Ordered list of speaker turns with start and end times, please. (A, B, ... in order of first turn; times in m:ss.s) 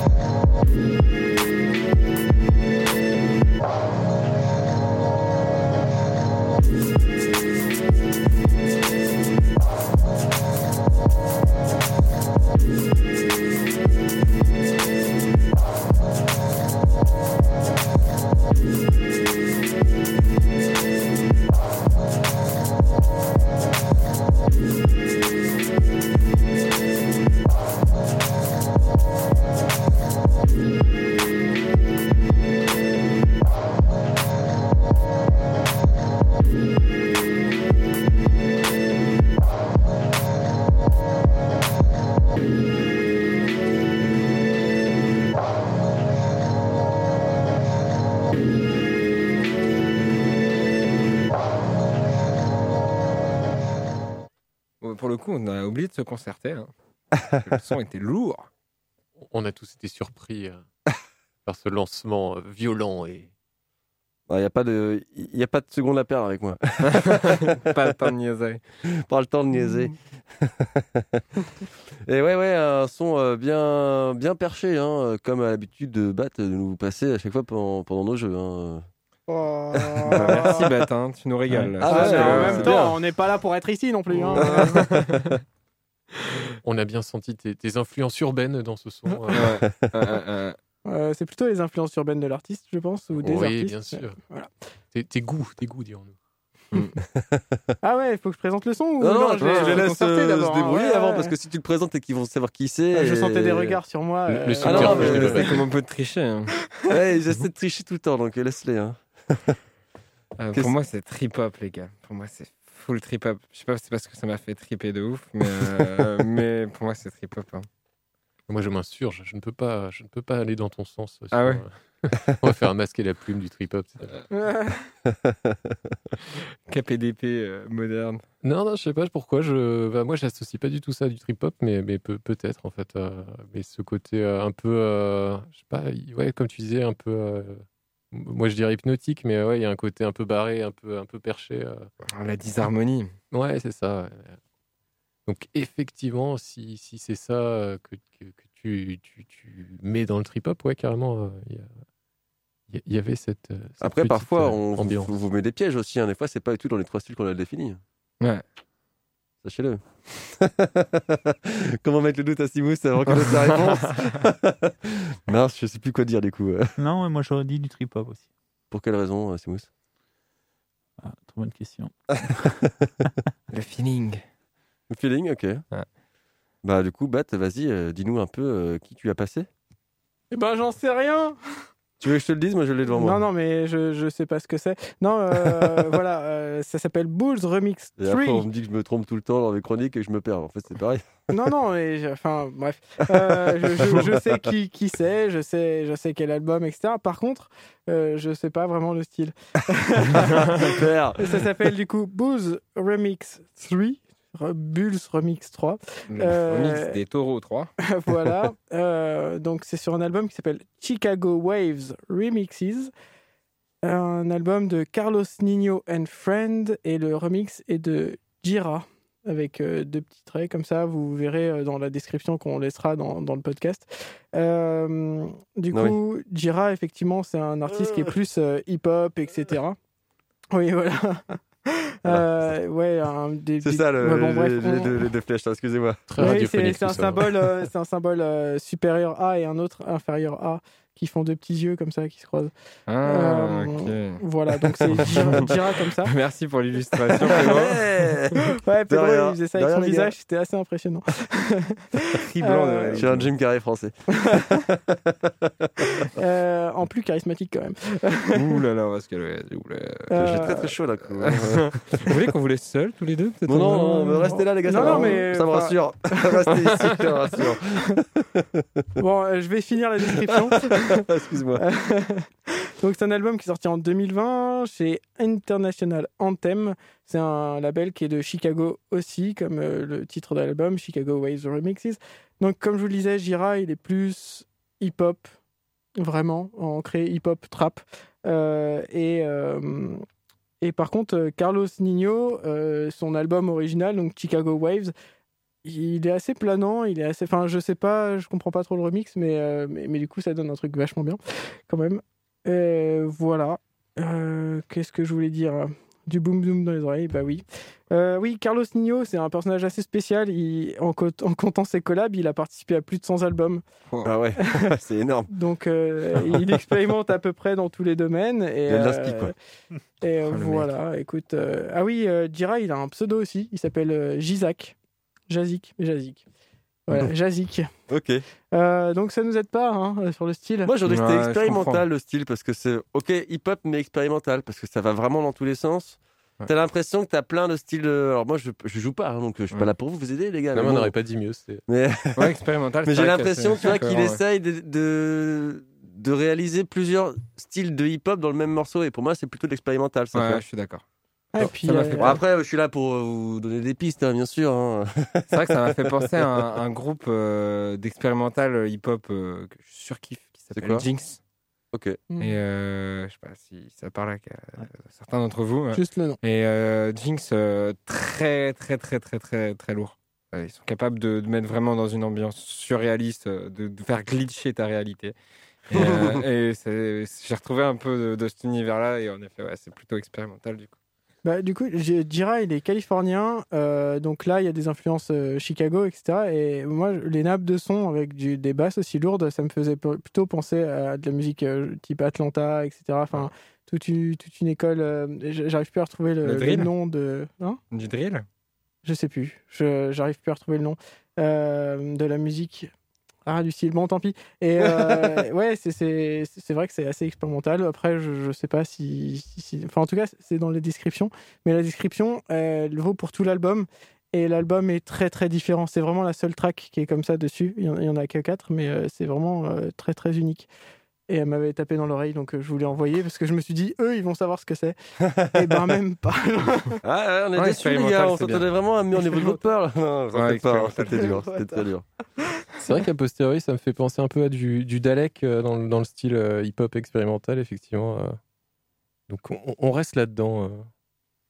0:54.8-0:56.7 A
0:57.4-0:58.5 A
0:59.2-1:00.7 B
1:01.5-1:03.3 B
1:04.3-1:07.6 C
1:06.9-1:08.6 A
1:09.0-1:11.2 C
1:12.1-1:18.8 C
1:19.3-1:20.7 D
1:20.0-1:20.4 C
1:20.1-1:22.8 A
1:21.8-1:23.0 C
1:21.8-1:24.7 D
1:24.4-1:25.1 C
1:24.4-1:25.4 A
1:26.6-1:29.6 B
1:29.3-1:30.6 A
1:30.9-1:34.5 D
1:33.2-1:34.2 B
1:34.9-1:36.2 B
1:37.0-1:37.6 C
1:37.8-1:41.3 D
1:39.0-1:43.8 C
1:39.4-1:40.4 A
1:42.9-1:45.4 D
1:44.3-1:45.6 B
1:44.6-1:45.4 C
1:44.8-1:46.5 A
1:46.9-1:49.6 C
1:50.4-1:57.7 A
1:58.5-2:04.2 B
2:01.3-2:01.6 A
2:04.3-2:04.8 D
2:05.1-2:06.0 C
2:06.7-2:08.2 A
2:08.4-2:21.9 B
2:22.1-2:23.1 A
2:23.3-2:24.4 B
2:25.3-2:31.7 B
2:32.7-2:35.1 B
2:33.8-2:37.8 C
2:39.4-2:46.7 C
2:43.1-2:43.8 A
2:46.8-2:48.3 E
2:48.7-2:49.7 C
2:51.0-2:51.9 E
2:53.5-2:54.2 A
2:54.9-2:55.6 C
2:56.6-2:59.5 C
3:00.3-3:01.4 D
3:02.0-3:03.2 C
3:02.9-3:08.5 D
3:08.0-3:11.0 C
3:11.3-3:27.0 D
3:13.8-3:14.2 C
3:20.2-3:21.4 C
3:26.1-3:27.7 A
3:27.9-3:32.9 D
3:33.8-3:49.8 D
3:45.7-3:46.0 C
3:47.7-3:48.1 C
3:50.5-3:51.4 D
3:52.0-3:54.9 D
3:53.6-3:56.0 C
3:56.1-3:57.7 B
3:56.2-4:02.5 D
4:02.9-4:04.2 A
4:03.1-4:06.1 D
4:05.0-4:05.5 A
4:06.1-4:07.8 A
4:07.2-4:08.4 C
4:08.4-4:13.0 D
4:08.9-4:10.1 C
4:12.2-4:13.3 A
4:12.9-4:16.1 C
4:16.0-4:18.3 D
4:18.3-4:20.5 A
4:20.1-4:20.7 D
4:20.2-4:22.2 C
4:21.1-4:25.2 A
4:23.5-4:28.8 C
4:24.3-4:26.4 D
4:26.5-4:26.9 A
4:29.0-4:31.0 D
4:30.5-4:31.6 C
4:31.6-4:45.3 D
4:46.0-4:50.0 D
4:50.6-4:54.9 D
4:55.6-5:13.6 D
5:13.9-5:14.1 A
5:14.0-5:15.3 C
5:15.3-5:19.3 D
5:18.7-5:19.3 C
5:20.0-5:24.8 D
5:20.3-5:20.7 A
5:25.3-5:26.2 D
5:26.9-5:27.7 D
5:27.9-5:28.2 C
5:28.5-5:30.7 D
5:30.6-5:40.9 C
5:30.8-5:31.8 A
5:40.5-5:41.6 B
5:41.7-5:42.3 C
5:42.2-5:44.2 A
5:42.8-5:50.4 C
5:50.1-5:50.8 A
5:51.3-5:52.2 D
5:51.4-5:52.2 A
5:52.0-5:56.3 C
5:55.3-6:01.2 A
6:00.5-6:00.8 C
6:01.7-6:02.0 C
6:02.1-6:02.4 D
6:02.2-6:15.2 A
6:05.7-6:06.2 D
6:15.7-6:20.7 A
6:15.7-6:16.1 C
6:21.2-6:37.6 D
6:36.2-6:36.7 A
6:37.7-6:38.3 A
6:38.8-6:42.7 D
6:43.3-7:00.5 D
7:01.1-7:04.8 D
7:05.3-7:06.8 D
7:06.8-7:11.8 C
7:07.4-7:08.5 A
7:10.1-7:11.2 A
7:11.0-7:11.6 D
7:12.6-7:18.2 B
7:19.1-7:20.7 B